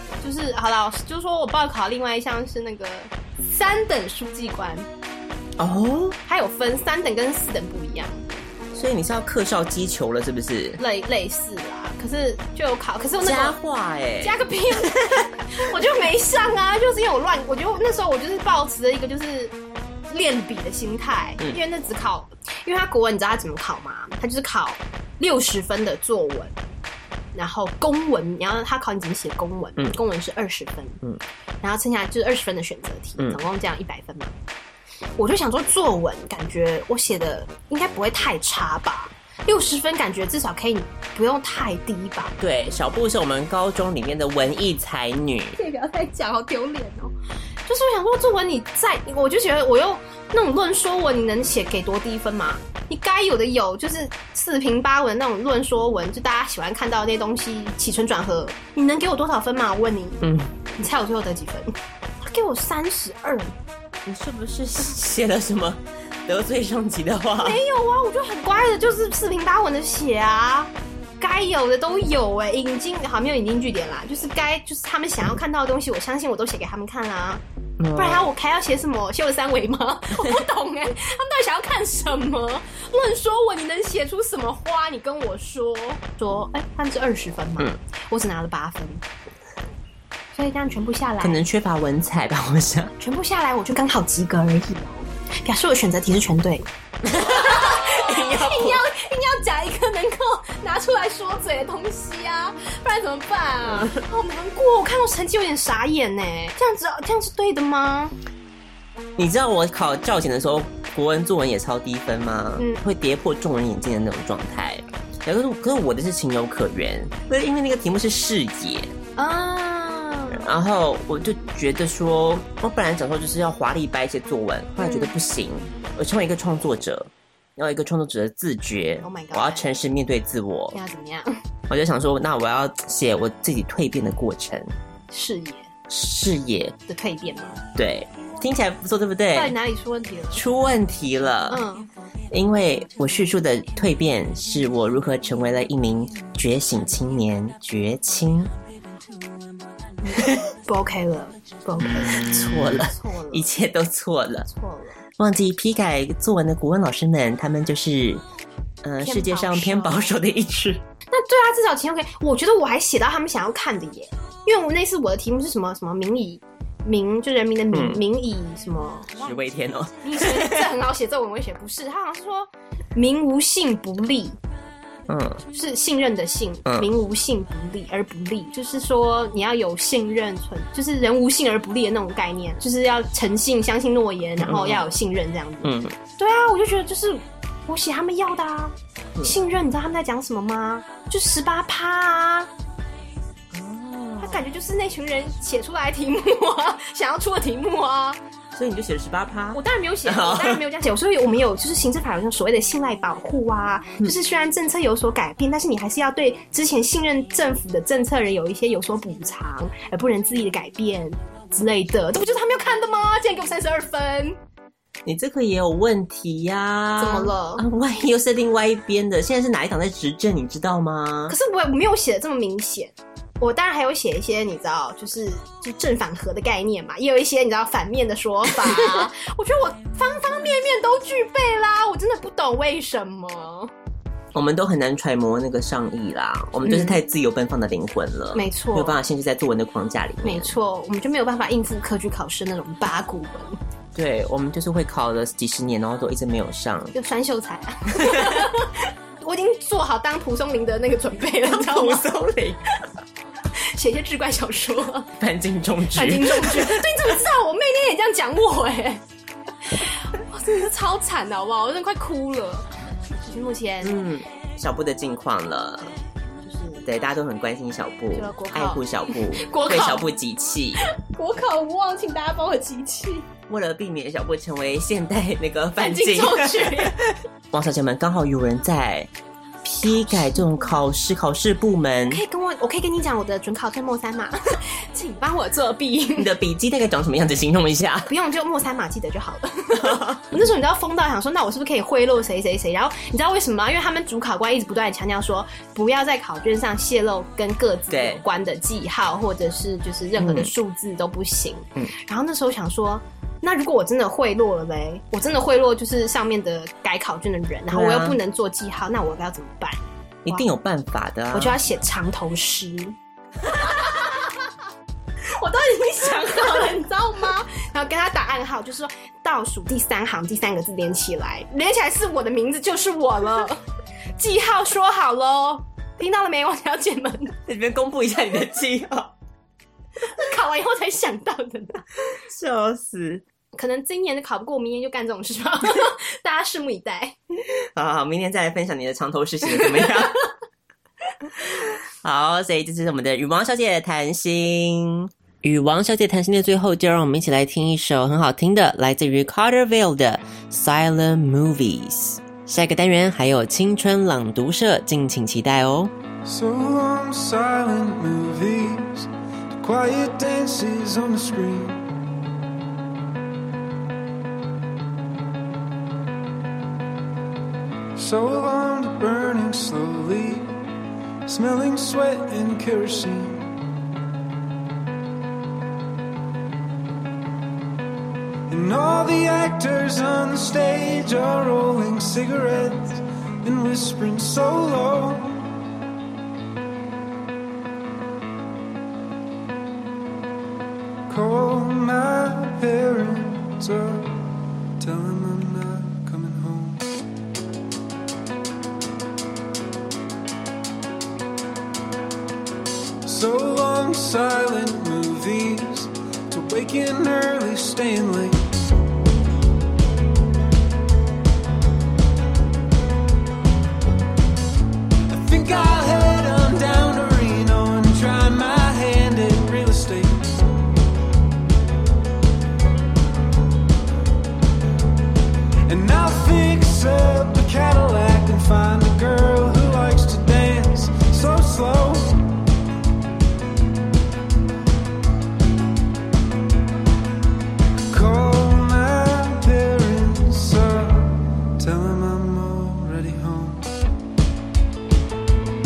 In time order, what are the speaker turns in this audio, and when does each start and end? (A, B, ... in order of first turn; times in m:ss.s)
0:00.2-0:04.9 A
0:05.6-0:06.2 B
0:06.2-0:08.4 A
0:08.7-0:10.8 B
0:10.8-0:13.6 A
0:13.2-0:15.4 B
0:14.2-0:19.5 A
0:20.1-0:26.5 A
0:27.3-0:31.0 A
0:31.6-0:34.3 A
0:35.2-0:42.4 A
0:42.4-0:45.6 B
0:45.6-0:47.1 A
0:47.7-1:03.5 A
1:00.2-1:00.5 B
1:04.0-1:07.6 B
1:07.4-1:17.4 A
1:17.8-1:18.3 B
1:17.9-1:29.0 A
1:30.3-1:31.4 A
1:31.2-1:32.9 B
1:33.0-1:48.2 A
1:37.1-1:38.8 B
1:43.7-1:44.0 B
1:49.2-1:58.9 B
1:59.2-2:00.5 A
2:00.3-2:10.8 B
2:04.8-2:05.1 A
2:09.0-2:09.7 A
2:10.7-2:11.4 A
2:11.7-2:14.7 B
2:15.1-2:15.7 A
2:15.9-2:16.8 B
2:16.9-2:17.6 A
2:17.7-2:19.5 B
2:19.3-2:20.4 A
2:20.3-2:21.6 B
2:21.5-2:21.9 A
2:22.3-2:28.5 B
2:30.0-2:33.5 A
2:31.8-2:34.5 B
2:34.4-2:35.0 A
2:35.2-2:38.2 B
2:38.8-2:40.8 B
2:39.0-2:40.1 A
2:41.1-2:49.3 A
2:47.7-2:48.0 B
2:49.2-2:50.7 B
2:50.0-2:54.4 A
2:55.1-2:55.4 B
2:55.5-3:12.5 A
3:04.4-3:04.9 B
3:05.6-3:06.0 B
3:13.5-3:14.4 B
3:14.2-3:18.2 A
3:18.5-3:20.6 B
3:19.5-3:34.4 A
3:35.0-3:41.3 B
3:37.0-3:37.6 A
3:41.3-3:53.7 A
3:48.6-3:49.0 B
3:54.3-4:00.5 B
3:56.6-3:57.0 A
3:58.3-3:59.0 A
4:00.2-4:03.6 A
4:03.9-4:06.9 B
4:06.9-4:12.1 A
4:07.9-4:08.5 B
4:11.4-4:12.6 B
4:13.6-4:15.1 A
4:15.2-4:16.8 B
4:15.9-4:19.0 A
4:19.6-4:22.7 A
4:23.2-4:24.0 A
4:23.8-4:25.9 B
4:26.4-4:26.9 A
4:26.8-4:30.8 B
4:28.1-4:30.0 A
4:30.8-4:33.3 A
4:33.5-4:39.1 B
4:35.8-4:37.0 A
4:39.6-4:40.6 A
4:39.8-4:42.2 B
4:42.1-4:46.3 A
4:46.2-4:48.1 B
4:48.1-5:10.4 A
4:49.8-4:50.2 B
4:57.9-4:58.2 B
5:00.2-5:00.5 B
5:07.7-5:08.2 B
5:10.2-5:11.6 B
5:11.3-5:14.5 A
5:15.2-5:23.6 A
5:24.2-5:27.4 A
5:27.4-5:29.1 B
5:30.0-5:31.9 A
5:32.1-5:33.2 B
5:33.5-5:37.2 A
5:37.5-5:40.2 B
5:41.5-5:55.9 B
5:56.2-6:01.9 C
6:08.0-6:10.6 C
6:11.2-6:13.5 C
6:18.5-6:25.5 C
6:31.1-6:34.3 C
6:34.8-6:36.9 C
6:43.0-6:48.4 C
6:55.1-7:00.2 C
7:05.7-7:12.3 C
7:17.9-7:23.8 C